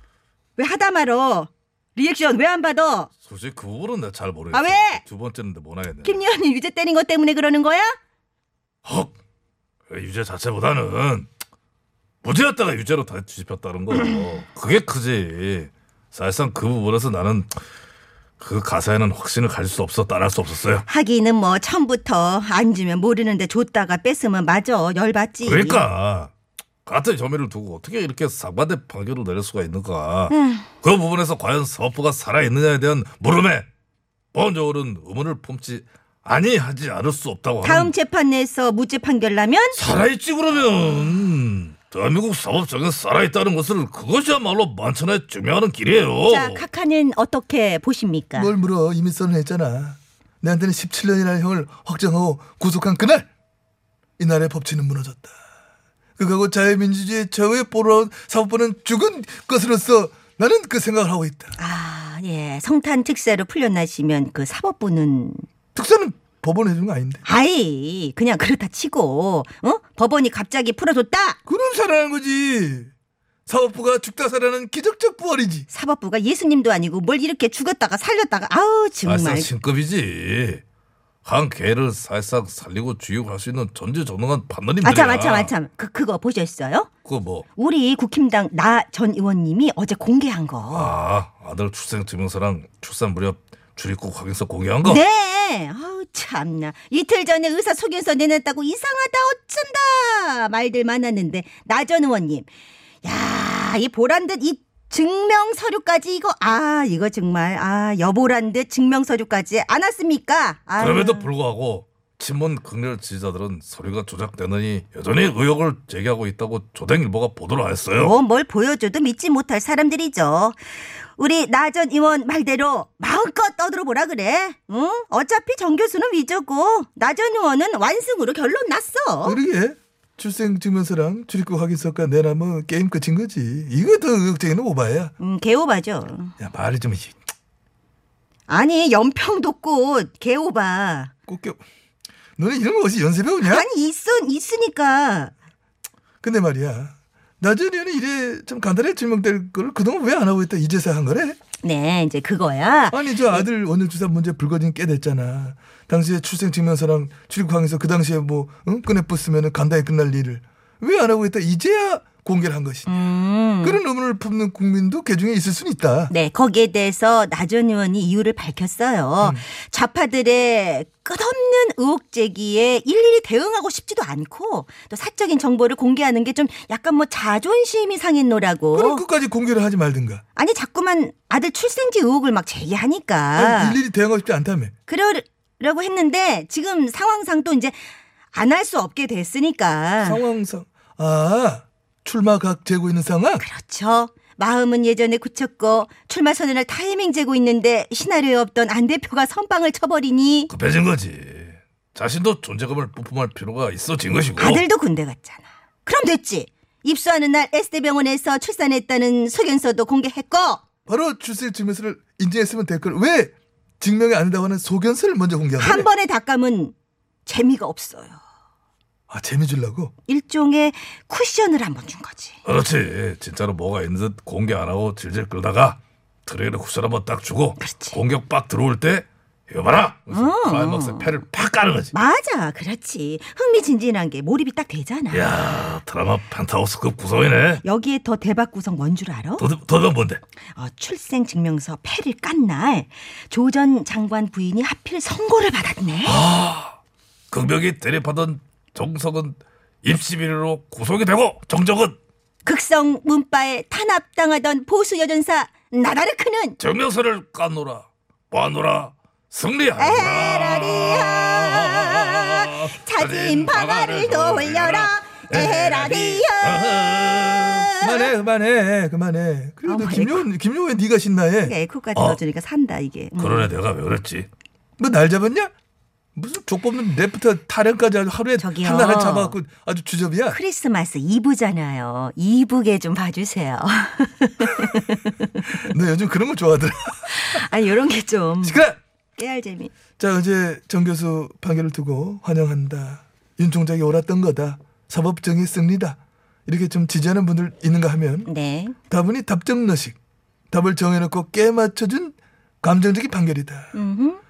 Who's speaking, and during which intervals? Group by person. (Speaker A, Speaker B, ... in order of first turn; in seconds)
Speaker A: 0.6-3.1, 4.5-5.0, 6.0-8.0, 20.9-25.8, 30.3-30.7, 37.6-39.8, 46.3-48.5, 61.6-65.5, 67.2-71.4, 75.7-79.5, 84.8-86.9, 87.6-91.0, 94.8-102.5, 103.0-111.3, 117.9-120.6, 121.2-129.4, 135.2-136.3, 138.5-141.1, 143.4-145.3, 151.6-153.4, 162.9-163.8, 166.1-179.0, 180.4-183.8, 184.9-187.8, 188.3-190.2, 193.4-200.5, 204.4-210.6, 215.6-216.7, 217.2-218.2, 220.1-222.4, 227.6-228.0, 230.1-231.2, 231.9-235.3, 237.6-239.5, 240.5-246.2, 252.4-256.6, 259.8-268.1, 269.6-270.3, 271.4-273.5, 278.4-279.4, 280.3-285.6, 287.1-288.6, 289.2-289.7, 298.3-298.8, 303.7-304.2
Speaker B: 3.2-6.2, 8.8-9.1, 9.9-11.3, 12.2-17.6, 18.4-20.9, 25.4-26.3, 26.9-33.7, 34.3-37.9, 39.7-46.6, 79.0-80.6, 81.2-85.5, 87.0-87.5, 90.7-95.0, 110.8-118.2, 200.5-204.7, 222.4-231.9, 235.1-237.6, 239.4-240.2, 246.1-246.8, 247.3-252.0, 256.6-267.7, 271.9-272.2, 273.2-274.3
Speaker C: 48.4-53.3, 54.2-55.4, 56.2-61.6, 65.8-67.2, 71.5-72.9, 73.5-75.7, 129.2-135.1, 136.4-137.2, 141.3-141.6, 142.4-143.7, 146.2-151.4, 152.9-163.1, 163.6-166.1, 178.7-180.2, 183.3-184.7, 190.0-193.4, 210.9-215.9, 219.1-219.9, 267.8-271.6, 274.8-275.5, 276.2-280.4, 285.6-287.4, 288.4-288.8, 290.0-298.3, 298.9-300.0, 300.5-303.7